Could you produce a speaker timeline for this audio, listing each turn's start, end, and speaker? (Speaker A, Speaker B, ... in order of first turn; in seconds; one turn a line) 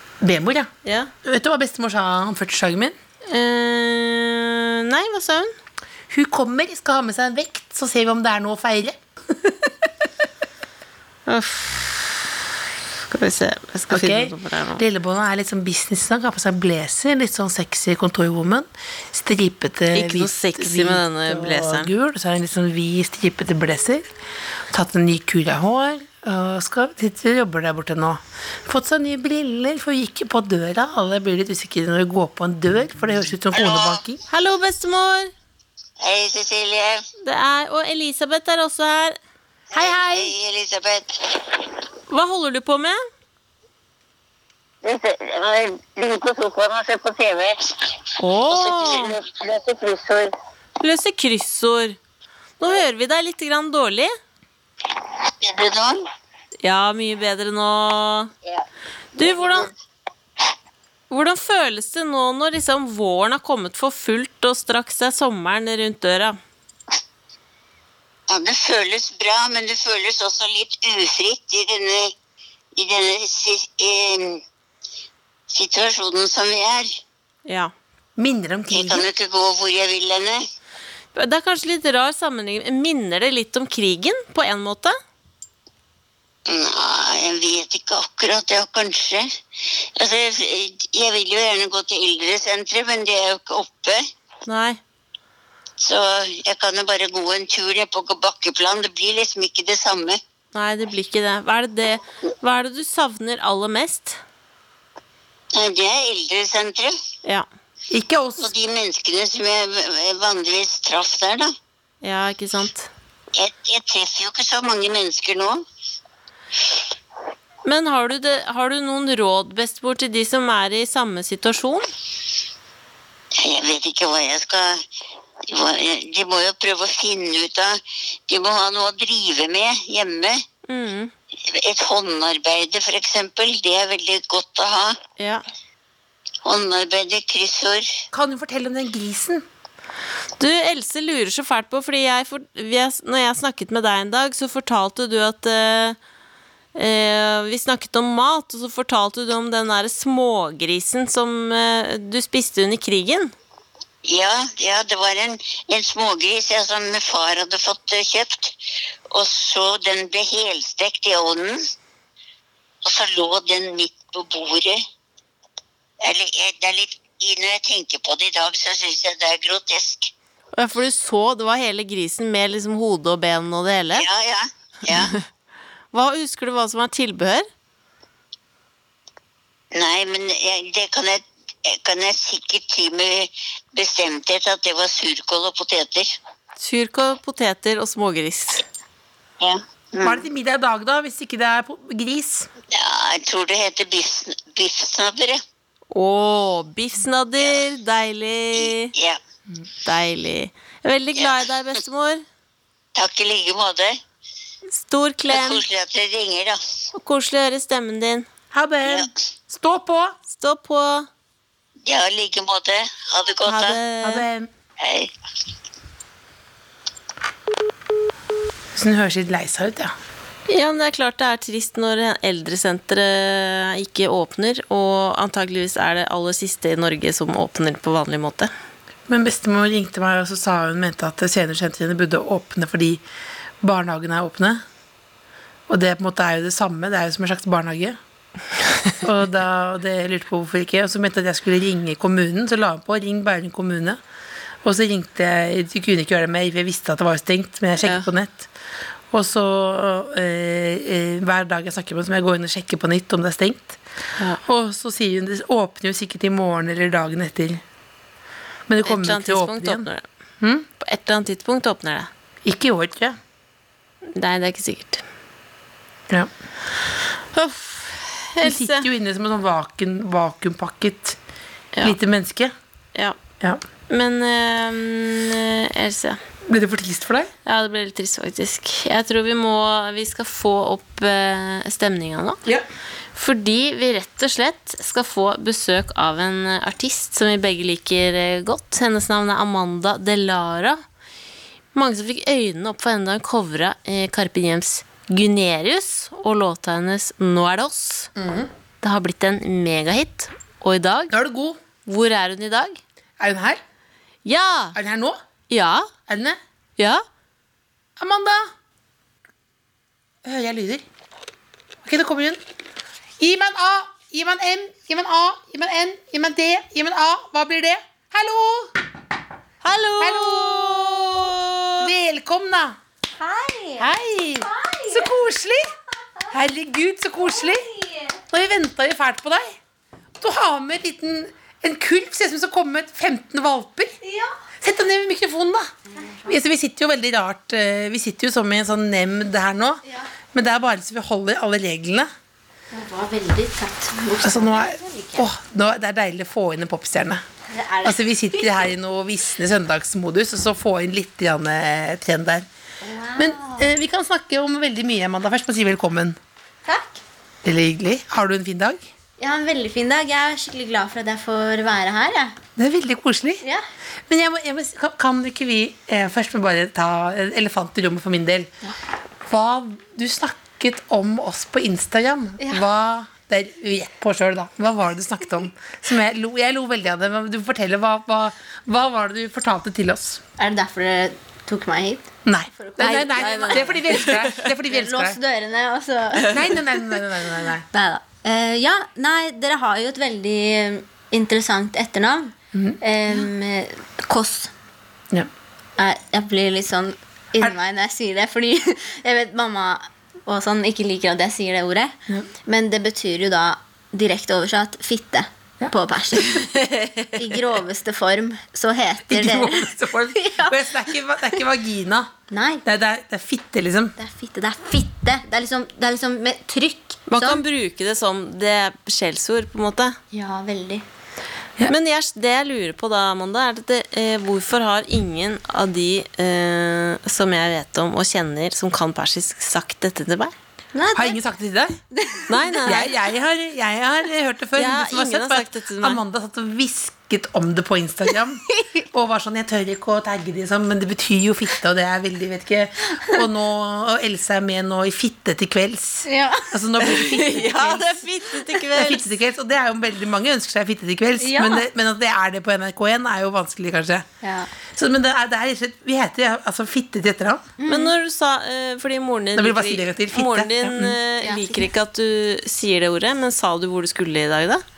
Speaker A: 0.2-0.7
Speaker B: 0.8-1.1
Speaker A: 1.2-2.9
Speaker B: 3.3-5.5
Speaker A: 6.1-9.7
Speaker B: 11.3-12.3
Speaker B: 13.1-14.8
Speaker A: 13.9-24.1
Speaker B: 19.9-21.9
Speaker A: 24.7-34.2
Speaker C: 33.5-34.0
Speaker B: 34.3-35.3
Speaker C: 36.0-37.0
Speaker B: 37.2-39.1
Speaker A: 39.7-40.3
Speaker C: 39.7-41.8
Speaker B: 42.1-43.0
Speaker C: 44.8-50.3
Speaker B: 48.2-49.2
Speaker B: 50.8-52.0
Speaker B: 52.6-54.1
Speaker C: 54.8-56.0
Speaker B: 56.6-58.3
Speaker B: 59.1-59.7
Speaker C: 59.2-59.7
Speaker B: 61.1-66.3
Speaker C: 68.3-72.1
Speaker C: 72.8-74.4
Speaker C: 75.5-77.0
Speaker B: 77.5-77.7
Speaker A: 78.2-79.0
Speaker C: 78.7-80.4
Speaker B: 81.1-85.0
Speaker C: 86.5-94.1
Speaker B: 94.5-94.8
Speaker C: 95.8-100.2
Speaker B: 100.5-104.2
Speaker C: 105.5-107.0
Speaker A: 107.9-108.5
Speaker C: 108.4-111.5
Speaker B: 112.0-112.9
Speaker C: 113.3-115.6
Speaker B: 117.6-121.9
Speaker C: 123.4-124.8
Speaker C: 125.5-130.4
Speaker B: 130.7-131.1
Speaker C: 131.4-135.0
Speaker B: 135.2-135.4
Speaker C: 136.4-138.0
Speaker A: 138.1-139.4
Speaker B: 140.4-146.0
Speaker B: 146.7-153.3
Speaker C: 154.0-158.6
Speaker C: 159.1-161.6
Speaker C: 162.8-164.8
Speaker C: 166.0-170.1
Speaker B: 170.5-174.1
Speaker C: 173.9-175.1
Speaker B: 174.9-175.2
Speaker B: 175.9-177.5
Speaker C: 179.7-186.1
Speaker B: 186.6-188.6
Speaker C: 189.4-190.2
Speaker A: 190.0-192.5
Speaker C: 192.7-195.4
Speaker B: 195.9-198.9
Speaker C: 198.6-199.2
Speaker B: 199.8-202.2
Speaker C: 202.9-204.0
Speaker B: 204.7-205.6
Speaker C: 205.3-206.6
Speaker B: 206.9-208.3
Speaker A: 208.5-210.2
Speaker C: 208.8-209.2
Speaker B: 210.3-211.1
Speaker C: 211.8-213.8
Speaker B: 213.4-214.2
Speaker A: 214.0-214.5
Speaker C: 214.8-215.1
Speaker A: 218.7-219.9
Speaker B: 220.5-228.5
Speaker A: 229.1-233.0
Speaker A: 233.6-234.6
Speaker A: 235.7-238.0
Speaker A: 239.0-244.0
Speaker A: 244.6-248.5
Speaker A: 249.1-253.8
Speaker A: 254.4-257.6
Speaker A: 258.7-259.9
Speaker B: 258.8-260.0
Speaker A: 260.4-260.6
Speaker B: 260.8-262.1
Speaker A: 262.4-263.2
Speaker B: 264.1-265.0
Speaker B: 267.3-268.9
Speaker A: 268.4-271.2
Speaker A: 271.8-272.5
Speaker B: 273.9-276.2
Speaker A: 276.5-277.3
Speaker B: 277.4-282.4
Speaker B: 283.1-290.8
Speaker B: 291.7-298.1
Speaker A: 298.1-298.5
Speaker B: 298.8-301.1
Speaker A: 301.1-301.6
Speaker B: 301.9-302.8
Speaker A: 303.2-303.6
Speaker B: 304.2-304.8
Speaker A: 304.7-305.2
Speaker B: 305.5-305.9
Speaker A: 306.1-306.4
Speaker B: 306.8-307.0
Speaker A: 308.0-308.5
Speaker A: 310.2-310.8
Speaker A: 311.9-312.4
Speaker A: 313.2-318.8
Speaker B: 319.6-321.9
Speaker A: 320.0-322.8
Speaker D: 323.2-323.9
Speaker A: 323.8-325.7
Speaker D: 324.4-325.1
Speaker A: 326.3-327.7
Speaker D: 327.4-328.1
Speaker A: 328.3-329.5
Speaker A: 330.2-333.9
Speaker D: 334.0-334.3
Speaker A: 334.6-335.7
Speaker D: 335.9-336.3
Speaker A: 336.2-342.1
Speaker D: 342.7-345.3
Speaker A: 344.2-347.2
Speaker D: 347.5-348.5
Speaker A: 347.8-352.4
Speaker D: 352.8-353.7
Speaker A: 353.2-356.2
Speaker D: 356.6-357.0
Speaker A: 357.4-358.9
Speaker D: 359.2-362.3
Speaker A: 362.6-363.4
Speaker A: 364.1-368.5
Speaker A: 369.3-380.2
Speaker D: 372.4-372.6
Speaker D: 380.4-384.2
Speaker A: 382.2-385.2
Speaker D: 384.7-386.6
Speaker A: 386.2-387.6
Speaker D: 387.7-394.5
Speaker D: 395.8-406.5
Speaker B: 406.4-407.1
Speaker D: 407.1-410.6
Speaker A: 409.1-412.1
Speaker D: 412.3-412.6
Speaker A: 412.6-413.9
Speaker D: 414.0-417.4
Speaker B: 417.1-420.0
Speaker D: 420.1-420.8
Speaker B: 421.7-430.3
Speaker D: 430.7-431.1
Speaker A: 430.9-431.8
Speaker D: 431.9-432.6
Speaker B: 432.3-432.9
Speaker A: 432.6-447.9
Speaker B: 434.6-436.0
Speaker D: 438.5-438.8
Speaker D: 446.0-446.6
Speaker B: 446.8-449.1
Speaker A: 448.7-454.1
Speaker D: 451.2-451.6
Speaker D: 454.2-454.5
Speaker A: 454.7-457.5
Speaker D: 457.6-457.9
Speaker B: 457.7-464.6
Speaker A: 459.4-460.9
Speaker D: 461.2-461.6